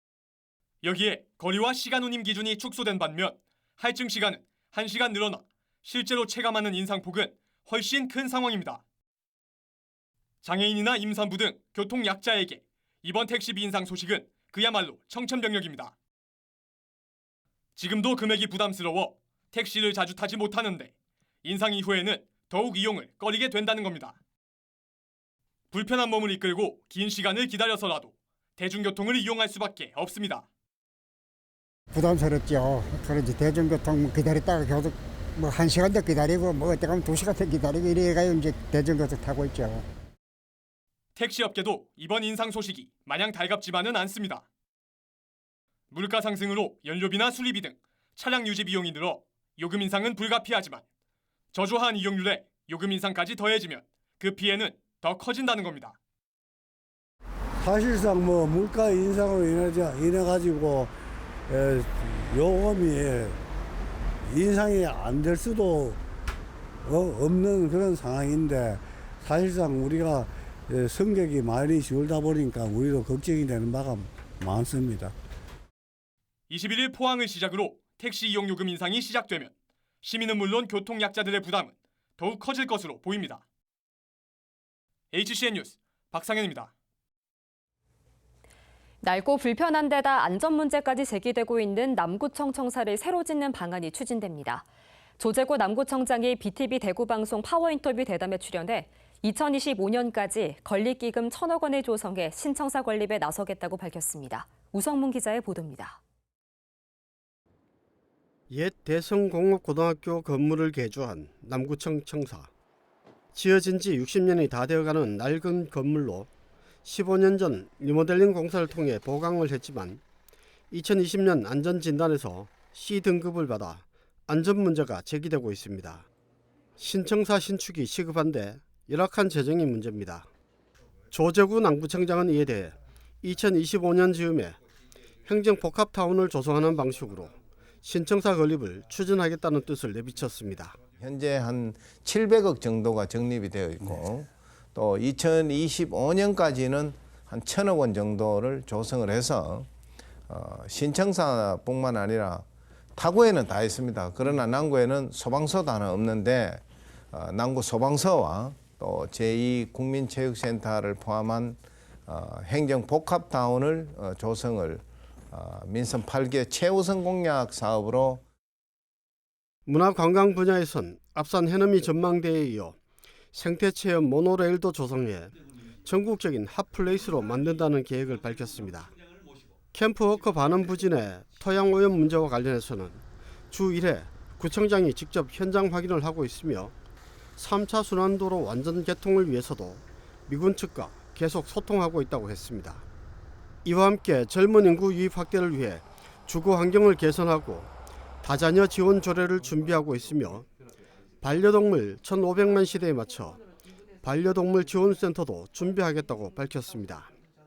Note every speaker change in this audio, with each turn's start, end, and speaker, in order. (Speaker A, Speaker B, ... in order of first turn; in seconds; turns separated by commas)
Speaker A: 0.8-8.8, Speaker A: 10.4-15.9, Speaker A: 17.8-20.9, Speaker A: 21.4-24.2, Speaker A: 25.7-30.5, Speaker B: 31.9-39.9, Speaker A: 41.2-44.5, Speaker A: 45.9-50.8, Speaker A: 51.5-56.0, Speaker C: 57.6-60.9, Speaker C: 61.5-63.4, Speaker C: 64.3-66.0, Speaker C: 66.8-75.1, Speaker A: 76.5-83.4, Speaker A: 85.1-86.7, Speaker D: 89.0-94.7, Speaker D: 95.2-106.0, Speaker E: 108.5-112.5, Speaker E: 113.3-116.3, Speaker E: 116.8-120.0, Speaker E: 120.7-126.1, Speaker E: 126.8-130.3, Speaker E: 131.1-134.6, Speaker E: 135.2-140.8, Speaker F: 141.0-149.7, Speaker F: 150.3-168.2, Speaker E: 169.7-172.8, Speaker E: 173.3-178.9, Speaker E: 179.7-186.7, Speaker E: 187.4-192.8, Speaker E: 193.7-197.7, Speaker E: 198.2-200.5, Speaker E: 201.2-203.4, Speaker E: 204.0-207.1